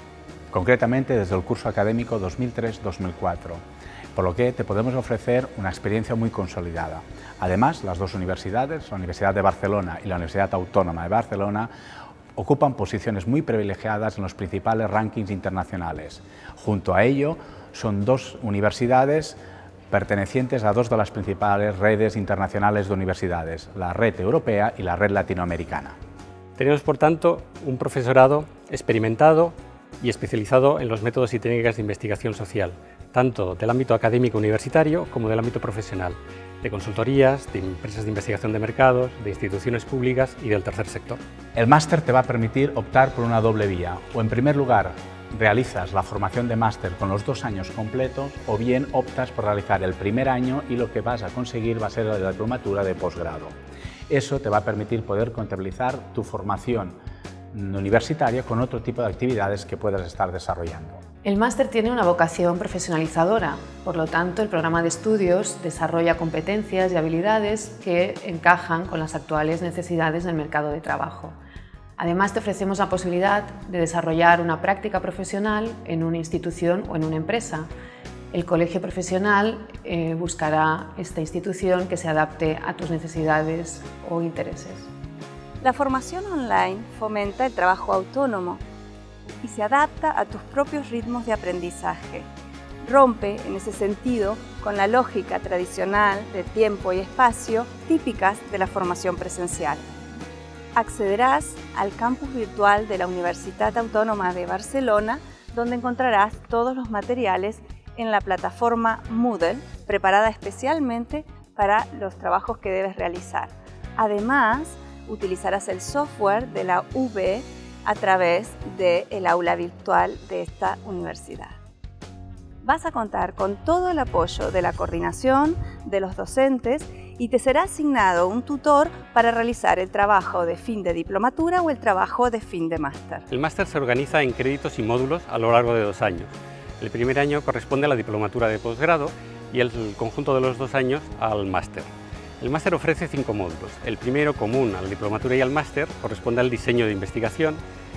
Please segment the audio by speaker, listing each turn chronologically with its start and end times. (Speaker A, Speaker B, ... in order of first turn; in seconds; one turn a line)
Speaker A: 0.5-3.6
Speaker A: 4.2-11.7
Speaker A: 12.4-19.4
Speaker A: 19.9-25.9
Speaker B: 26.6-41.2
Speaker A: 41.5-53.5
Speaker A: 54.1-57.0
Speaker A: 57.5-61.0
Speaker C: 61.2-71.4
Speaker C: 72.0-77.7
Speaker C: 78.3-84.9
Speaker D: 85.6-88.6
Speaker D: 89.4-92.3
Speaker D: 92.8-99.8
Speaker D: 100.8-121.6
Speaker D: 122.6-133.2
Speaker B: 133.3-147.6